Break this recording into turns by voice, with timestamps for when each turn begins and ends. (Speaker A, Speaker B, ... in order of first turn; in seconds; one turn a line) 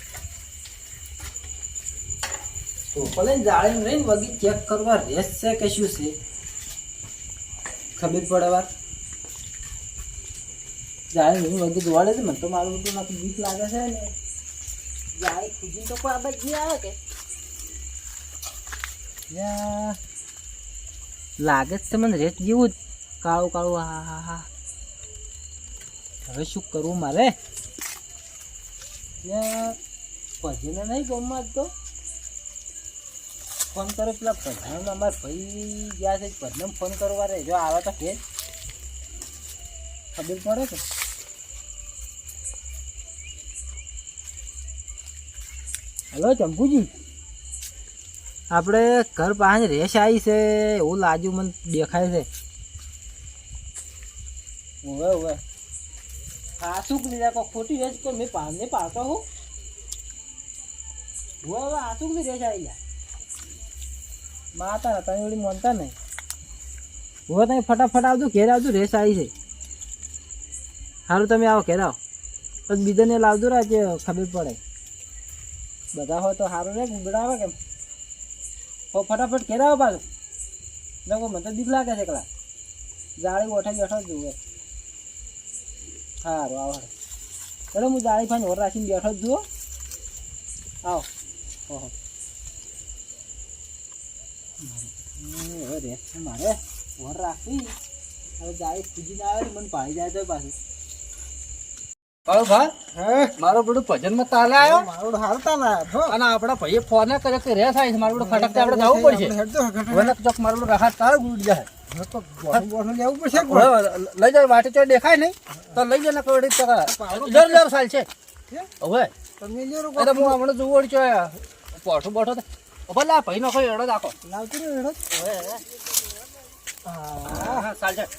Speaker A: 2.9-6.1
Speaker A: 8.0-8.7
Speaker A: 11.1-14.1
Speaker A: 15.2-17.0
Speaker A: 19.3-20.0
Speaker A: 21.4-24.5
Speaker A: 26.3-27.3
Speaker A: 29.2-29.8
Speaker A: 30.4-31.7
Speaker A: 33.7-38.2
Speaker A: 40.1-40.8
Speaker A: 46.1-46.9
Speaker A: 48.5-52.3
Speaker A: 54.8-55.4
Speaker A: 56.6-59.2
Speaker A: 61.4-62.8
Speaker A: 64.5-65.9
Speaker A: 67.3-69.3
Speaker A: 71.1-72.0
Speaker A: 72.7-74.6
Speaker A: 75.9-77.6
Speaker A: 78.9-80.0
Speaker A: 81.0-82.3
Speaker A: 83.2-84.4
Speaker A: 86.2-86.9
Speaker A: 87.7-89.5
Speaker A: 94.6-97.7
Speaker A: 98.4-100.5
Speaker B: 102.3-102.7
Speaker A: 102.9-103.3
Speaker B: 103.4-104.9
Speaker A: 104.6-106.1
Speaker B: 106.1-109.3
Speaker A: 108.1-110.1
Speaker B: 109.9-111.7
Speaker A: 111.9-113.7
Speaker B: 113.3-118.1
Speaker A: 116.8-117.6
Speaker B: 118.8-119.1
Speaker A: 119.4-120.4
Speaker B: 120.0-124.1
Speaker A: 124.2-125.0
Speaker B: 125.1-125.6
Speaker A: 126.8-127.7
Speaker B: 127.3-128.1